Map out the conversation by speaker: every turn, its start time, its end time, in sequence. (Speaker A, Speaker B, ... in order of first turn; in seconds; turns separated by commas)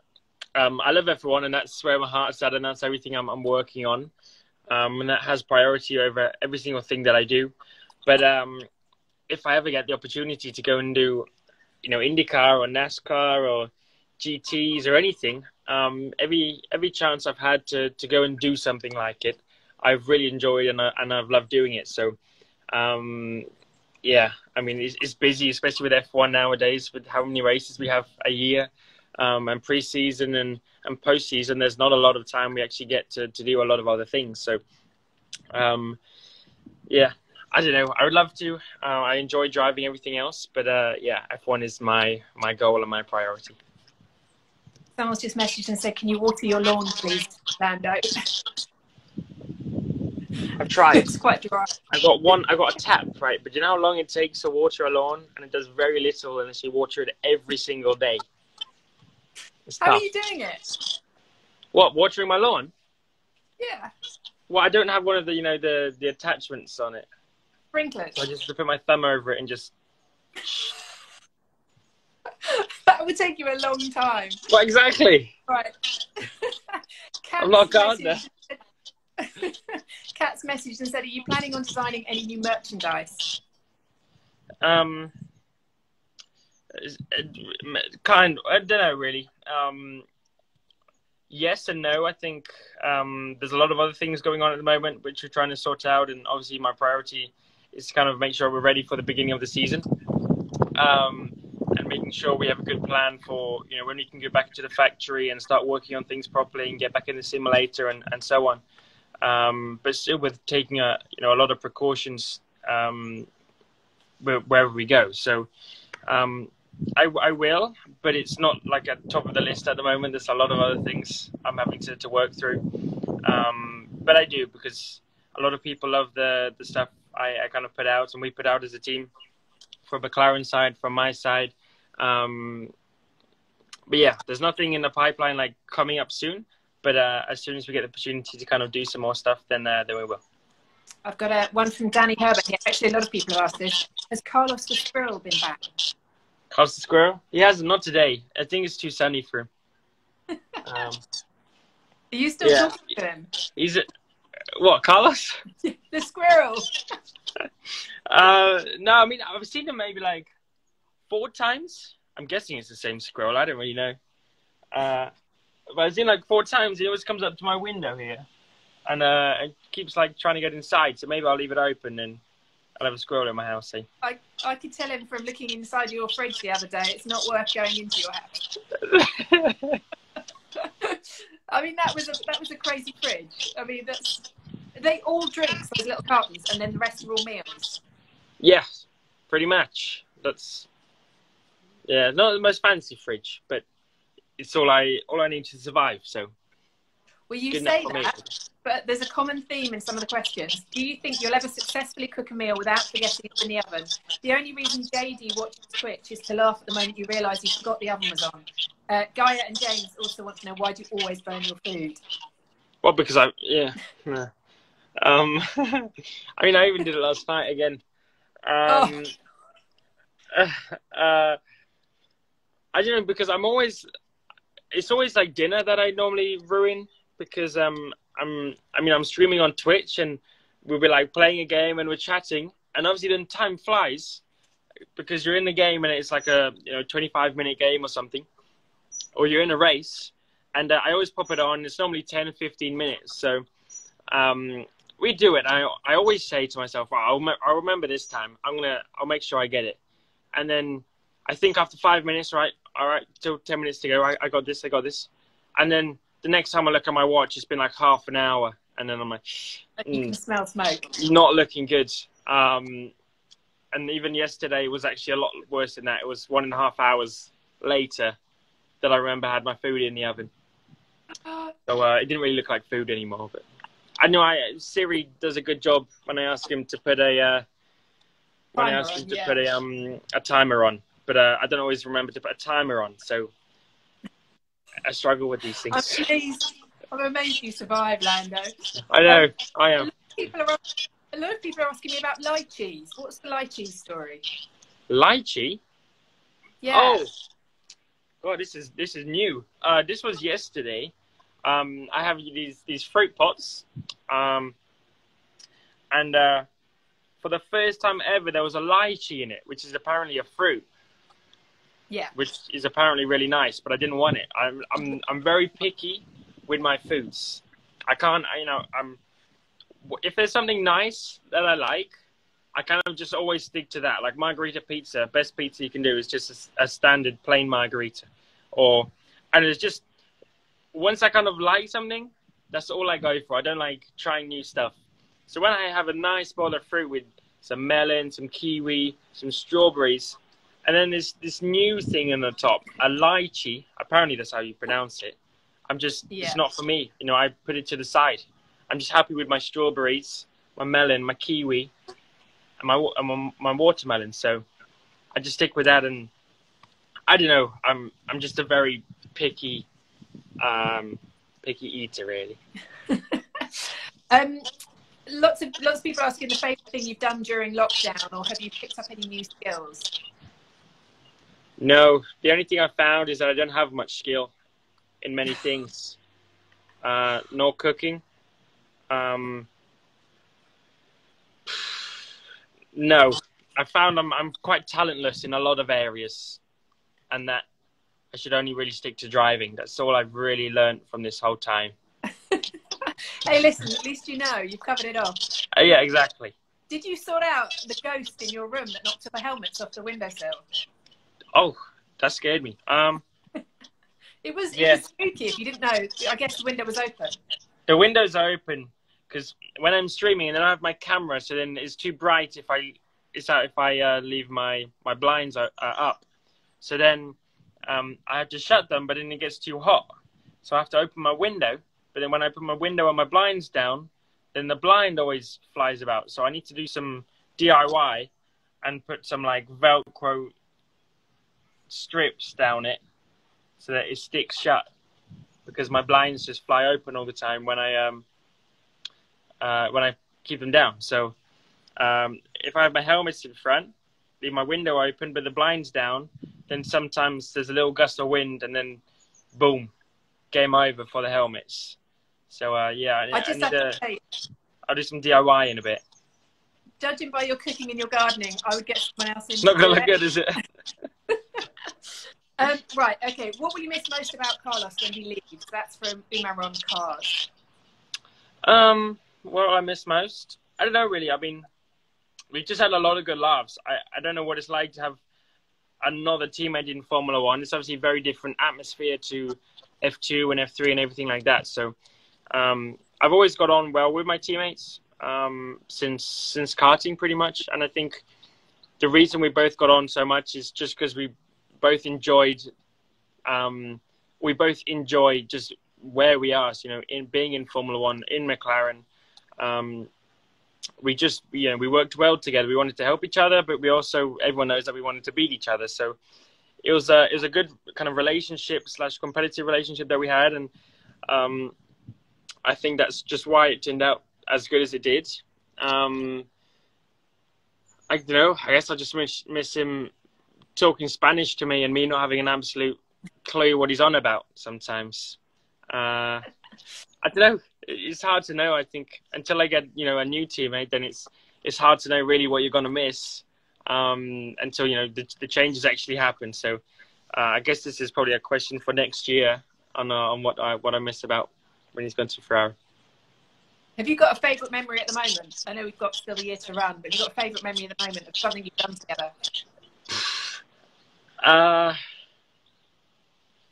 Speaker A: 0.6-4.1, Speaker A: 4.7-7.5, Speaker A: 8.1-8.6, Speaker A: 9.3-11.3, Speaker A: 11.8-22.1, Speaker A: 22.7-23.4, Speaker A: 24.0-34.6, Speaker A: 35.5-36.0, Speaker A: 36.9-43.6, Speaker B: 45.0-48.4, Speaker A: 50.6-51.1, Speaker B: 50.9-51.7, Speaker A: 51.9-58.2, Speaker A: 59.7-60.0, Speaker B: 59.8-60.6, Speaker A: 61.7-62.7, Speaker B: 63.6-63.9, Speaker A: 64.5-67.1, Speaker B: 67.7-68.2, Speaker A: 68.2-69.7, Speaker B: 72.4-74.4, Speaker A: 74.5-75.3, Speaker B: 75.5-76.6, Speaker B: 77.2-78.6, Speaker A: 77.4-78.2, Speaker B: 79.2-83.4, Speaker A: 84.6-85.1, Speaker A: 86.7-90.0, Speaker A: 91.3-99.8, Speaker A: 100.8-108.6, Speaker A: 109.2-113.3, Speaker A: 114.2-115.5, Speaker A: 116.1-122.6, Speaker A: 123.2-129.1, Speaker A: 129.8-132.7, Speaker A: 133.9-140.2, Speaker B: 141.0-145.7, Speaker A: 146.5-149.5, Speaker A: 150.6-151.0, Speaker B: 152.1-153.3, Speaker A: 152.4-152.8, Speaker A: 153.6-153.8, Speaker A: 154.6-155.4, Speaker B: 155.6-156.7, Speaker A: 158.1-160.3, Speaker A: 161.1-164.0, Speaker A: 164.7-165.1, Speaker A: 165.7-168.2, Speaker A: 168.8-172.2, Speaker A: 172.8-173.8, Speaker B: 174.0-178.4, Speaker A: 178.8-179.8, Speaker B: 180.6-181.0, Speaker B: 181.5-187.8, Speaker A: 188.4-190.7, Speaker A: 191.9-193.6, Speaker A: 194.4-196.3, Speaker B: 197.3-212.0, Speaker A: 197.5-198.2, Speaker A: 212.8-214.3, Speaker A: 215.0-217.8, Speaker A: 218.4-219.1, Speaker B: 218.7-219.0, Speaker A: 220.3-221.4, Speaker A: 222.7-223.9, Speaker A: 224.7-234.2, Speaker A: 234.9-238.3, Speaker A: 239.2-243.4, Speaker A: 244.1-249.8, Speaker A: 250.3-260.1, Speaker B: 259.8-260.9, Speaker A: 260.9-262.9, Speaker A: 263.7-268.1, Speaker A: 268.8-270.3, Speaker B: 271.2-271.5, Speaker A: 271.7-273.4, Speaker A: 274.0-277.4, Speaker B: 278.6-279.4, Speaker A: 278.6-283.3, Speaker A: 284.8-286.0, Speaker B: 285.7-288.5, Speaker A: 288.9-289.9, Speaker B: 289.8-290.6, Speaker B: 291.1-294.2, Speaker A: 294.9-295.6, Speaker B: 296.6-297.1, Speaker A: 296.7-297.1, Speaker A: 298.2-300.9, Speaker A: 301.4-304.6, Speaker A: 305.9-306.5, Speaker A: 307.2-310.6, Speaker A: 312.1-319.0, Speaker A: 319.8-321.9, Speaker A: 322.6-329.8, Speaker A: 330.7-334.8, Speaker A: 335.3-345.2, Speaker A: 345.7-351.7, Speaker B: 346.1-346.4, Speaker A: 352.6-354.4, Speaker A: 355.1-356.1, Speaker A: 357.1-359.7, Speaker A: 360.4-362.4, Speaker B: 362.9-364.4, Speaker B: 365.1-369.9, Speaker A: 371.6-374.3, Speaker A: 375.0-376.0, Speaker A: 376.8-378.0, Speaker A: 378.9-379.5, Speaker A: 381.5-381.9, Speaker A: 382.7-386.4, Speaker A: 387.1-387.4, Speaker A: 388.1-391.7, Speaker B: 392.3-395.2, Speaker A: 395.5-396.3, Speaker B: 396.7-400.4, Speaker A: 401.3-403.0, Speaker B: 404.2-407.2, Speaker A: 404.5-404.8, Speaker A: 407.7-416.0, Speaker A: 416.6-417.2, Speaker A: 417.7-419.9, Speaker A: 420.4-428.1, Speaker A: 428.6-430.3, Speaker A: 431.7-432.8, Speaker A: 433.6-434.6, Speaker A: 435.4-438.0, Speaker A: 439.4-441.1, Speaker A: 441.8-448.8, Speaker A: 449.3-449.7, Speaker A: 450.3-451.8, Speaker A: 452.3-453.8, Speaker B: 453.1-454.0, Speaker A: 454.7-455.8, Speaker B: 456.8-460.0, Speaker A: 459.4-460.4, Speaker B: 462.4-467.3, Speaker A: 468.4-471.4, Speaker A: 472.3-475.0, Speaker A: 475.8-481.7, Speaker A: 482.3-488.0, Speaker A: 488.8-492.4, Speaker A: 493.3-498.8, Speaker A: 499.4-499.9, Speaker A: 500.8-506.0, Speaker A: 506.6-510.5, Speaker A: 511.1-511.5, Speaker A: 512.4-516.3, Speaker A: 517.9-519.9, Speaker A: 520.5-525.2, Speaker A: 525.7-526.2, Speaker A: 527.0-536.6, Speaker A: 537.1-542.5, Speaker B: 543.8-549.1, Speaker A: 551.2-551.8